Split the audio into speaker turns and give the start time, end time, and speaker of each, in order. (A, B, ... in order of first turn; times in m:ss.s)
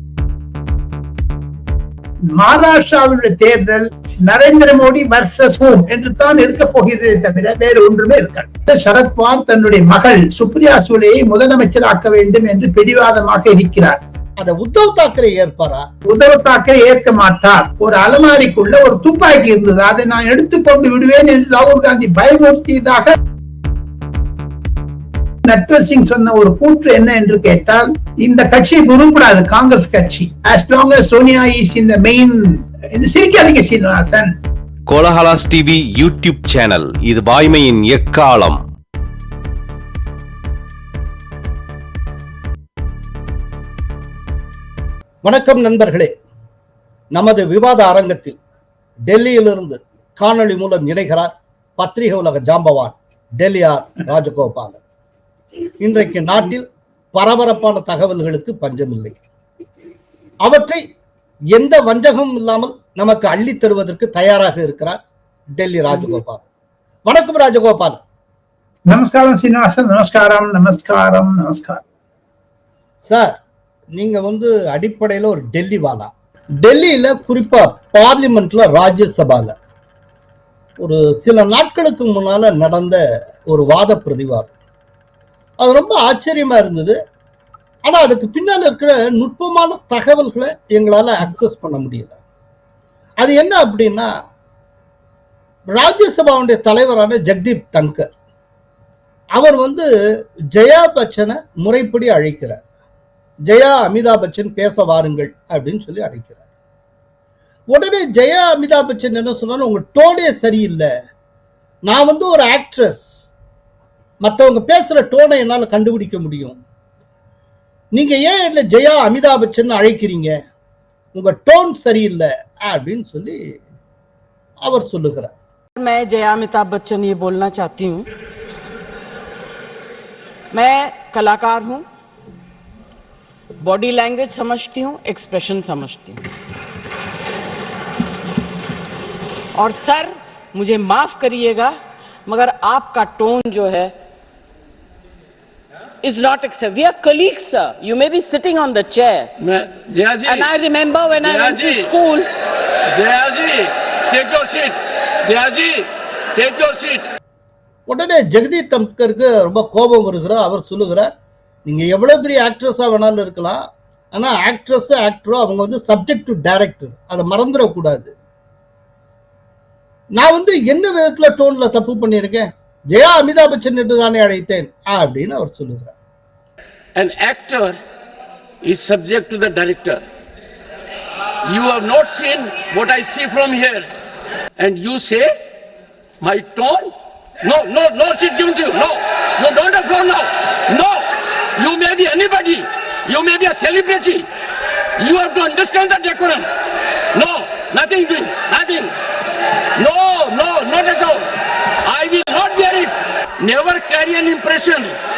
0:02.3-0:14.0 A
0:14.4-0:15.9 B
0:16.1-0:23.2 A
0:25.4-0:34.3 A
0:34.9-0:38.6 C
0:45.2-0:46.1 B
0:47.1-0:48.4 B
0:49.1-0:54.8 B
0:55.8-0:59.2 B
1:00.4-1:00.8 B
1:01.5-1:05.0 B
1:05.6-1:06.4 B
1:07.1-1:08.0 B
1:08.9-1:11.8 A
1:13.0-1:13.4 B
1:13.9-1:19.6 B
1:20.8-1:24.5 B
1:25.6-1:27.0 B
1:27.8-1:32.2 B
1:33.2-1:34.1 B
1:35.7-1:38.1 B
1:39.4-1:39.9 B
1:40.5-1:42.6 B
1:43.5-1:46.4 B
1:47.7-1:50.9 B
1:51.9-1:53.1 B
1:54.2-1:56.6 B
1:57.9-2:00.4 B
2:01.1-2:03.6 B
2:04.6-2:05.4 B
2:05.8-2:08.1 D
2:10.5-2:11.8 D
2:13.6-2:16.2 D
2:19.6-2:23.9 D
2:26.0-2:29.3 D
2:29.4-2:30.5 E
2:30.3-2:32.3 D
2:31.2-2:31.9 E
2:32.9-2:37.1 E
2:37.9-2:41.1 B
2:41.6-2:43.6 B
2:44.1-2:48.1 B
2:50.2-2:56.0 B
2:57.0-2:57.8 E
2:58.6-3:00.0 E
3:01.4-3:03.9 E
3:04.6-3:05.3 E
3:06.2-3:06.9 E
3:07.4-3:14.3 E
3:15.0-3:16.5 E
3:17.1-3:18.9 E
3:19.8-3:21.3 E
3:21.8-3:24.9 E